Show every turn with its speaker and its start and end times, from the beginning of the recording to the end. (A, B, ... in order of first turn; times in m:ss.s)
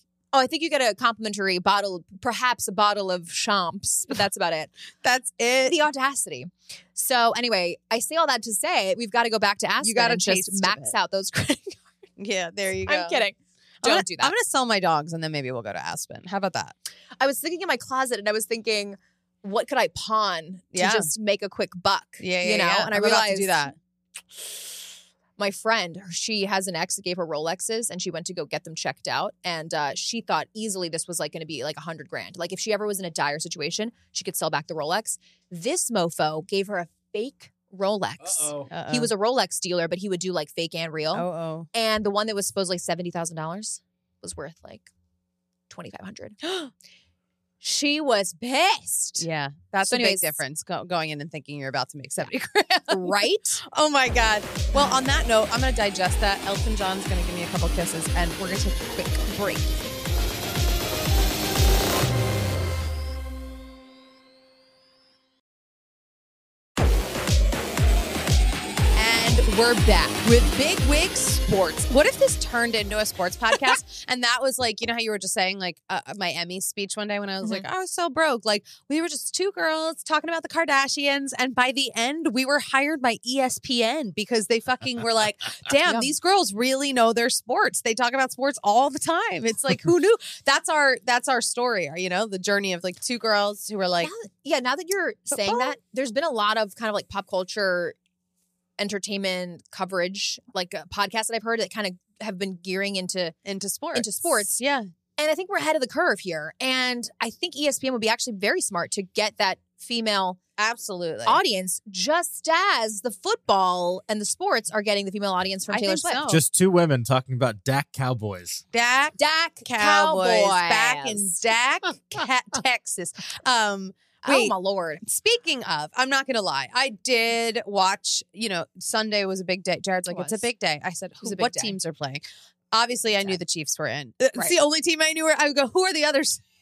0:00.3-0:04.7 A
0:05.0-0:05.8 B
0:05.6-0:11.8 A
0:09.8-0:10.9 B
0:12.2-0:13.2 B
0:12.8-0:14.3 A
0:13.8-0:16.7 B
0:17.2-0:23.7 A
0:20.7-0:21.1 B
0:22.2-0:23.8 B
0:25.4-0:44.9 A
0:38.2-0:38.7 C
0:38.7-0:39.1 B
0:41.1-0:41.7 B
0:45.7-0:46.7 A
0:47.6-0:49.3 A
0:49.2-0:59.8 B
0:49.8-0:50.4 A
0:52.9-0:53.6 A
1:08.9-1:34.1 B
1:34.0-1:37.9 A
1:35.3-1:35.8 B
1:38.8-1:43.4 A
1:43.4-1:44.9 B
1:43.9-1:44.6 A
1:45.2-1:50.4 A
1:50.6-1:51.4 B
1:51.2-1:56.2 A
1:55.7-1:56.4 B
1:56.3-1:58.6 C
1:58.7-2:16.4 B
1:59.2-2:01.4 A
2:04.2-2:05.0 A
2:10.1-2:10.4 A
2:11.2-2:11.8 A